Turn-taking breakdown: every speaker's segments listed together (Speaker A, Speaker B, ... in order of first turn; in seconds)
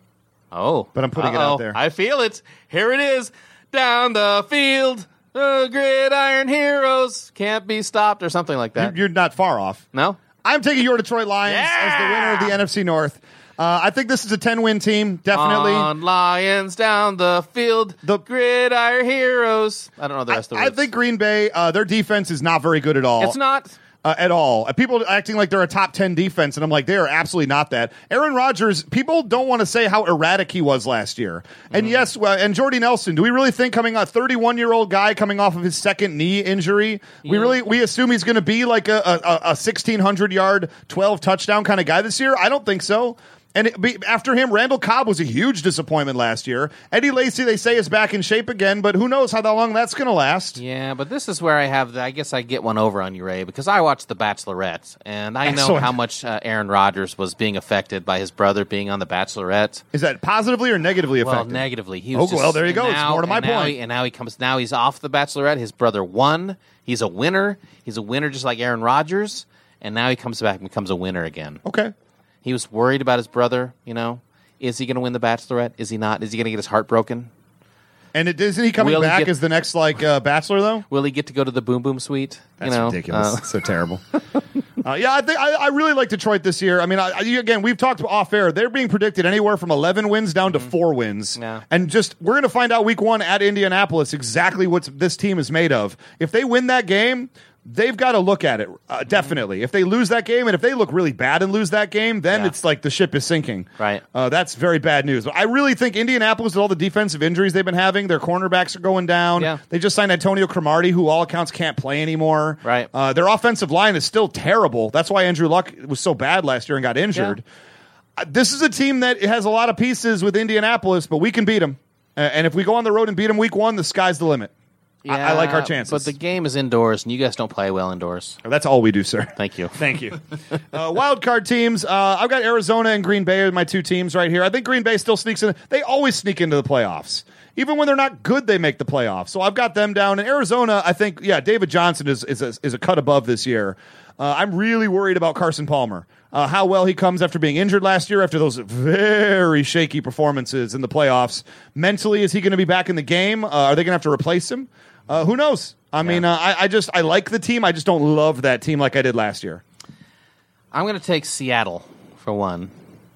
Speaker A: 0.5-9.0, 9.9-10.2, 11.4-12.6, 15.3-20.9, 23.2-23.8, 31.7-32.0, 37.2-37.6, 50.6-59.8, 61.2-71.6, 72.4-77.3, 78.8-79.4, 80.9-83.5, 91.4-91.6, 103.8-104.0, 112.6-112.9, 125.0-128.4, 129.4-129.8, 160.7-162.7
Speaker B: 0.9-1.8, 8.8-9.8, 10.4-15.9, 20.3-23.4, 24.0-50.6, 55.5-56.0, 59.9-61.6, 62.1-63.8, 71.7-71.9, 78.1-80.8, 82.6-84.0, 84.8-117.4, 118.2-124.5, 125.1-126.1, 128.4-130.2, 130.7-159.6